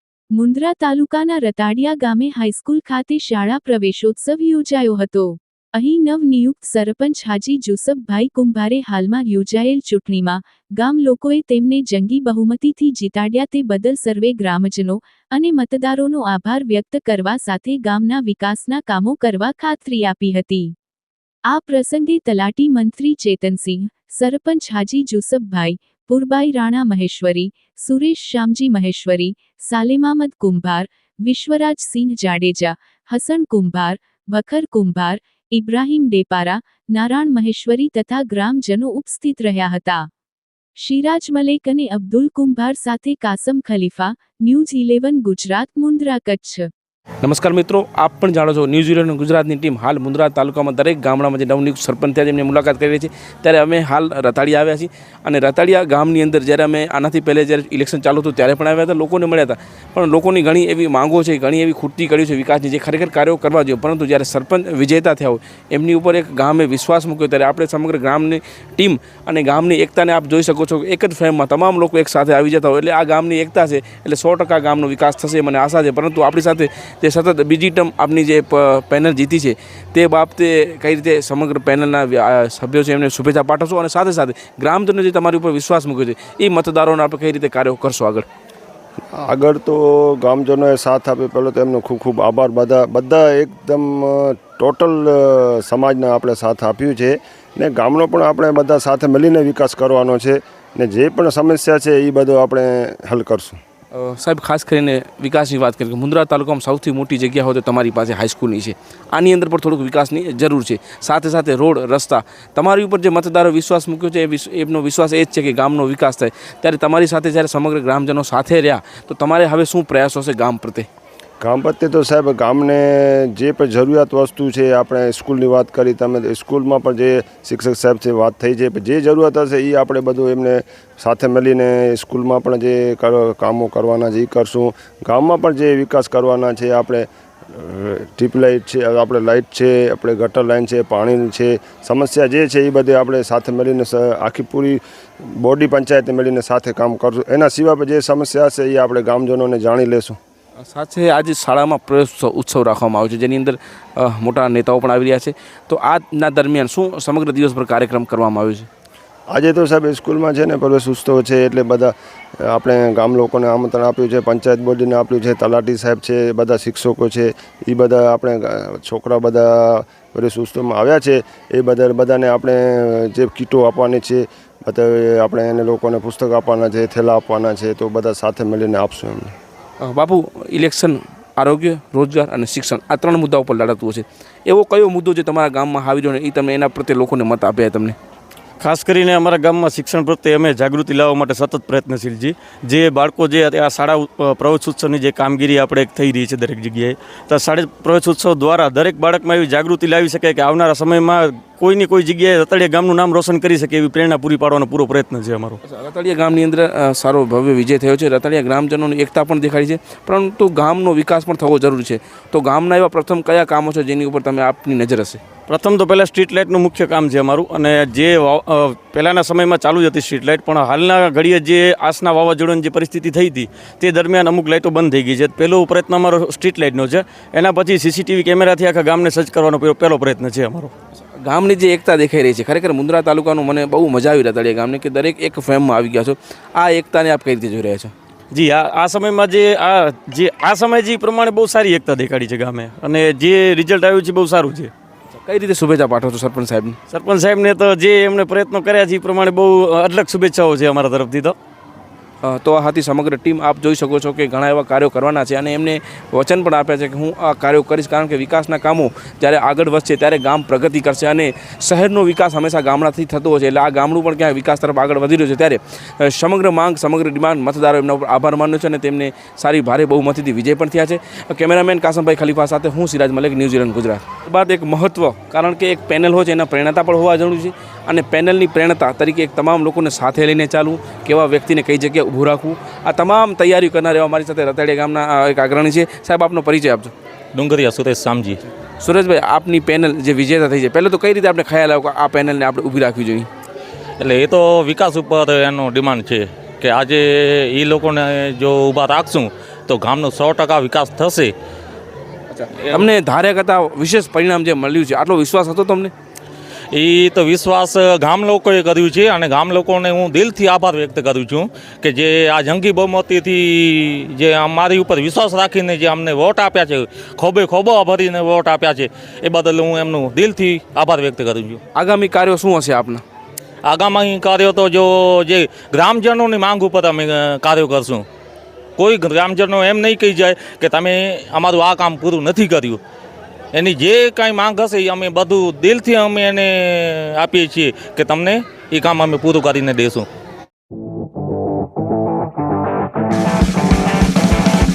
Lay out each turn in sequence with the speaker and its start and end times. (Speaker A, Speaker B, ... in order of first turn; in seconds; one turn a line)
Speaker A: 0.3-20.7
Speaker A: 21.5-40.1
Speaker A: 40.8-46.7
Speaker B: 47.2-88.3
Speaker C: 89.2-103.6
Speaker B: 103.9-120.9
Speaker C: 121.4-150.2
Speaker B: 150.6-158.7
Speaker C: 159.3-161.9
Speaker C: 162.5-179.3
Speaker B: 179.8-188.0
Speaker D: 188.6-205.6
Speaker B: 205.6-215.2
Speaker D: 215.5-230.7
Speaker B: 231.2-237.9
Speaker D: 238.3-244.7
Speaker B: 245.1-246.8
Speaker D: 246.9-251.4
Speaker B: 252.2-286.9
Speaker E: 287.4-288.4
Speaker B: 288.8-293.3
Speaker E: 294.0-301.3
Speaker B: 302.3-305.9
Speaker E: 306.7-321.6
Speaker B: 321.8-323.0
Speaker E: 323.7-328.0
Speaker E: 328.8-332.8
Speaker E: 333.5-340.1